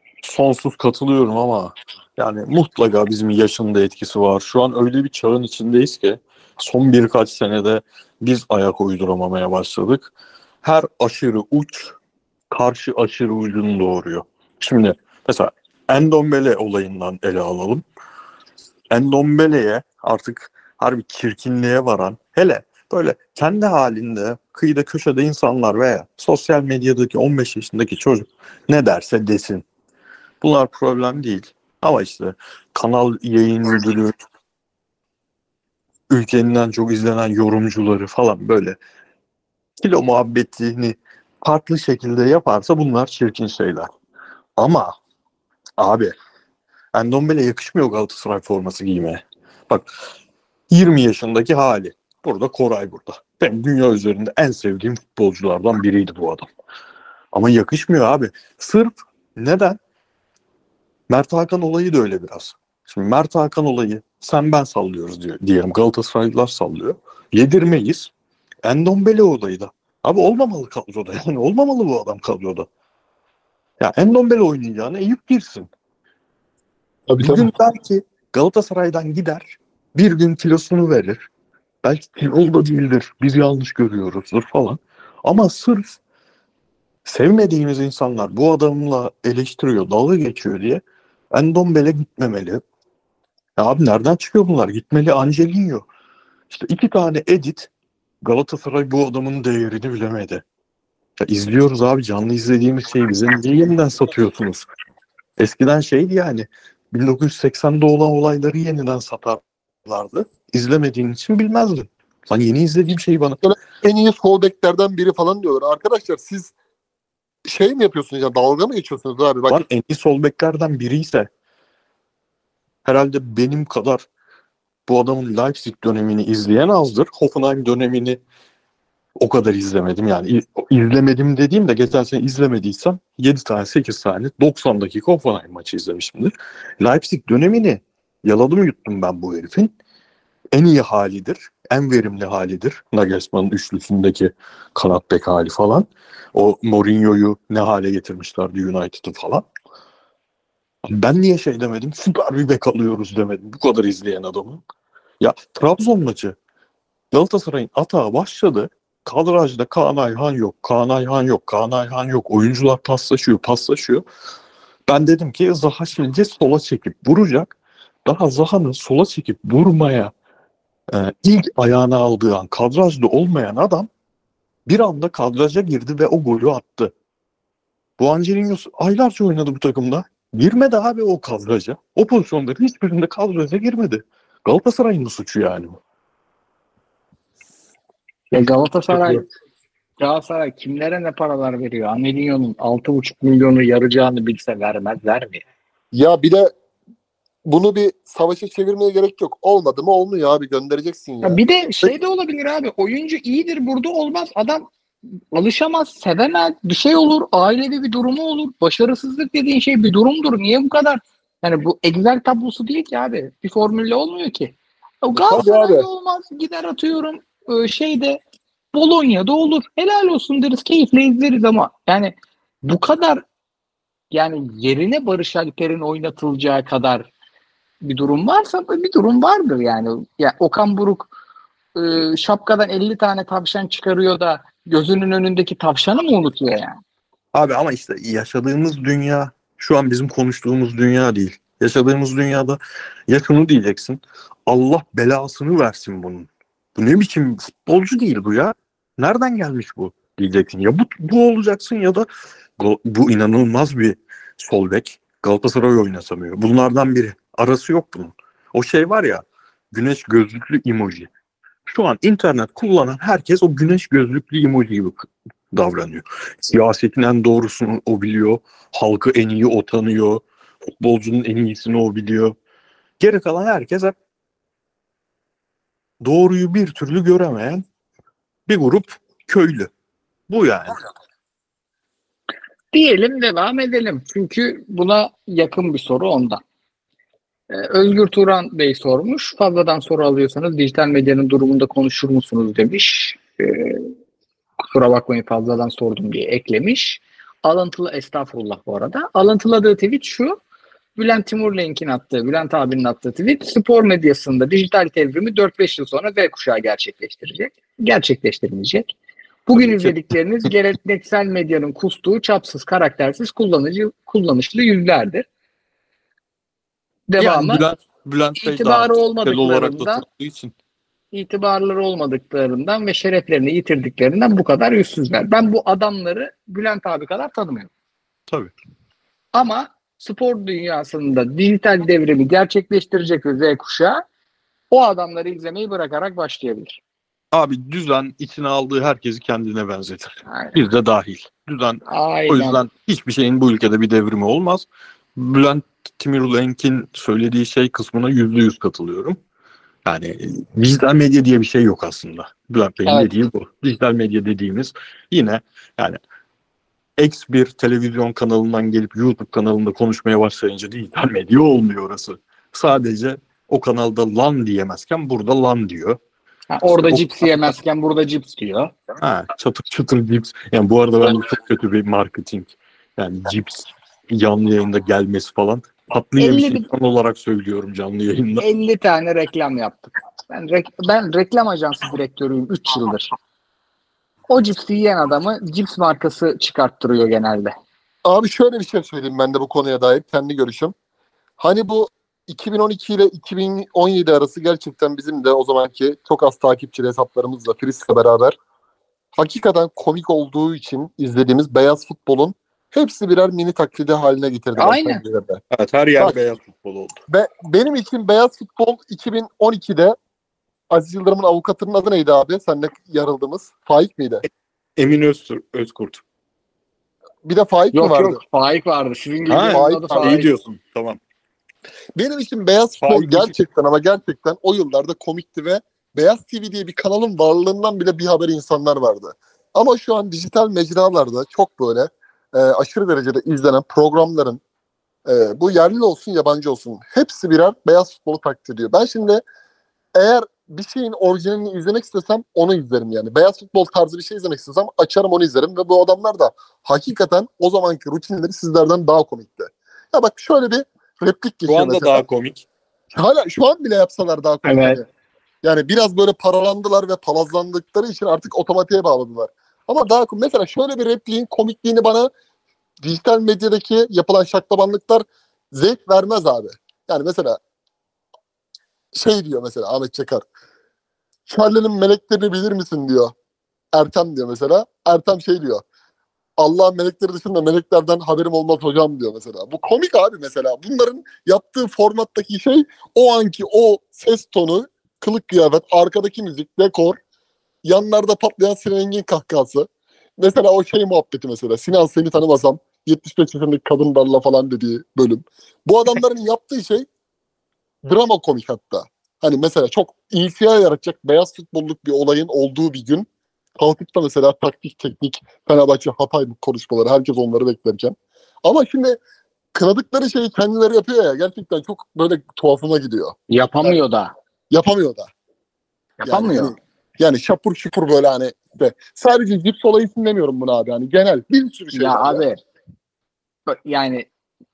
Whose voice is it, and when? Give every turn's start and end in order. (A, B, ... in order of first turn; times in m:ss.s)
0:00.2-0:10.1 A
0:10.6-0:11.9 A
0:12.5-0:17.8 A
0:18.9-0:29.6 A
0:30.4-0:34.1 A
0:36.1-0:38.8 A
0:39.8-0:43.9 A
0:44.6-0:44.9 A
0:45.8-0:46.1 A
0:46.9-0:49.9 A
0:50.7-0:56.5 A
0:57.3-0:59.8 A
1:01.1-1:08.1 A
1:08.6-1:12.7 A
1:13.8-1:15.7 A
1:17.1-1:17.5 B
1:17.2-1:21.2 A
1:21.8-1:26.0 A
1:27.0-1:32.6 A
1:33.6-1:35.8 A
1:36.5-1:37.7 A
1:38.2-1:40.4 A
1:41.2-1:44.7 A
1:45.4-1:53.4 A
1:53.4-1:56.5 B
1:57.4-1:59.6 B
1:59.5-2:01.3 A
2:02.8-2:04.1 A
2:04.9-2:08.2 A
2:09.2-2:19.7 A
2:20.5-2:29.4 A
2:30.8-2:34.6 A
2:35.2-2:36.4 A
2:37.1-2:44.0 A
2:44.9-2:47.5 A
2:48.0-2:50.1 A
2:50.9-2:53.9 A
2:54.7-2:56.9 A
2:58.0-3:05.8 A
3:08.3-3:09.2 C
3:10.0-3:15.4 C
3:15.9-3:16.5 B
3:17.4-3:21.9 B
3:21.2-3:24.6 C
3:25.3-3:38.2 C
3:35.2-3:35.8 B
3:38.7-3:43.2 C
3:44.1-3:47.1 C
3:47.8-3:51.1 C
3:51.7-3:56.8 C
3:57.3-4:12.1 A
4:12.6-4:21.1 A
4:21.7-4:30.2 A
4:30.8-4:32.3 A
4:33.0-4:33.9 A
4:36.0-4:37.6 A
4:38.5-4:39.7 A
4:40.3-4:40.8 A
4:42.7-4:46.4 C
4:47.5-4:53.9 C
4:54.7-5:00.4 C
5:01.0-5:08.9 C
5:09.4-5:15.2 C
5:09.6-5:09.9 A
5:17.1-5:17.6 C
5:17.2-5:20.5 A
5:18.4-5:20.0 C
5:21.1-5:27.7 C
5:29.3-5:34.0 C
5:34.7-5:36.8 C
5:37.3-5:49.2 A
5:40.3-5:40.6 C
5:41.9-5:42.6 C
5:49.8-5:56.0 A
5:57.0-6:06.0 A
6:06.5-6:08.7 C
6:06.8-6:07.6 A
6:09.0-6:18.4 A
6:16.2-6:16.6 C
6:18.4-6:23.1 C
6:24.3-6:27.5 C
6:28.0-6:30.7 B
6:31.4-6:38.4 B
6:39.2-6:45.4 B
6:44.6-6:45.0 C
6:45.5-6:47.0 A
6:47.1-6:50.0 B
6:50.7-6:54.2 B
6:54.8-6:56.0 A
6:57.2-6:58.2 B
6:57.7-7:00.3 C
6:59.3-7:01.0 A
6:59.5-7:00.2 B
7:02.0-7:14.4 B
7:02.8-7:03.4 A
7:15.0-7:19.2 B
7:19.9-7:32.0 B
7:31.5-7:32.4 A
7:32.9-7:34.8 B
7:34.4-7:34.8 C
7:35.4-7:42.1 B
7:42.8-7:47.4 B
7:48.9-7:50.2 B
7:51.3-7:53.1 B
7:53.7-7:55.6 B
7:56.4-8:07.0 B
8:07.6-8:09.7 B
8:10.2-8:16.9 B
8:17.8-8:23.0 B
8:23.6-8:29.0 B
8:29.5-8:33.8 B
8:33.3-8:34.1 C
8:34.5-8:35.1 B
8:36.0-8:42.2 B
8:36.0-8:36.5 C
8:41.7-8:42.4 C
8:43.5-8:44.1 C